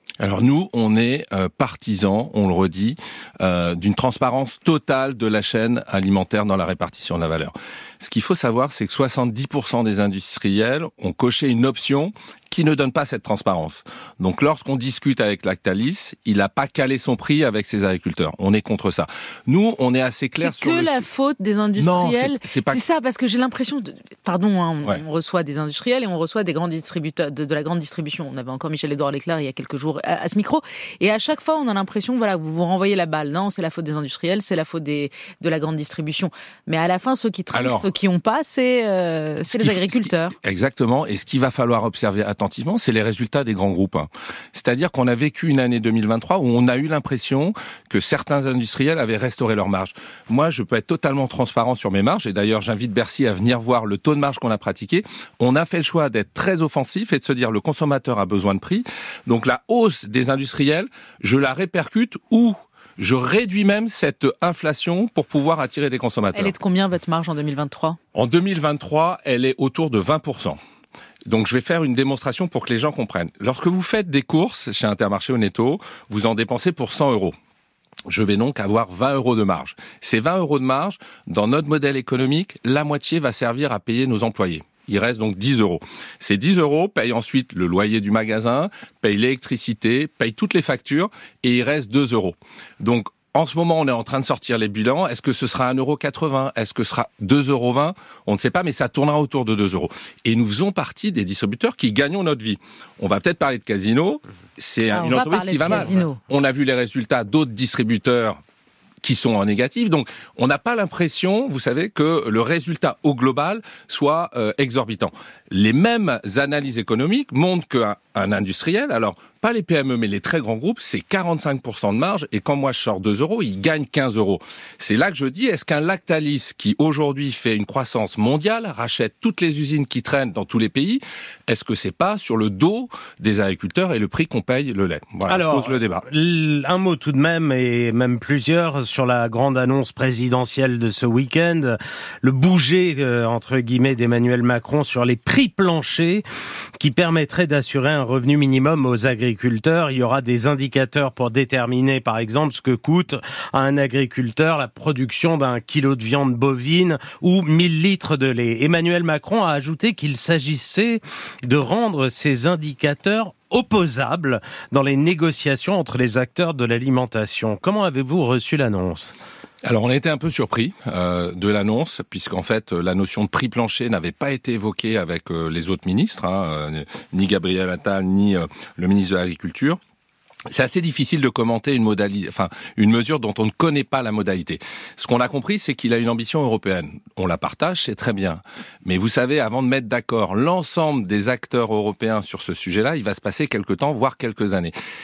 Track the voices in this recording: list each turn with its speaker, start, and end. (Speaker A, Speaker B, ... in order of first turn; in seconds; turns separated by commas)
Speaker A: 0.2-21.1, Speaker B: 20.4-40.4, Speaker A: 21.8-22.8, Speaker A: 37.5-37.9, Speaker A: 39.5-66.5, Speaker B: 66.3-68.0, Speaker A: 68.1-70.6, Speaker A: 71.3-77.3, Speaker A: 78.1-108.4, Speaker B: 104.9-106.2, Speaker A: 109.0-136.1, Speaker C: 135.3-146.2, Speaker C: 146.8-169.1, Speaker A: 169.6-179.8, Speaker A: 180.5-194.7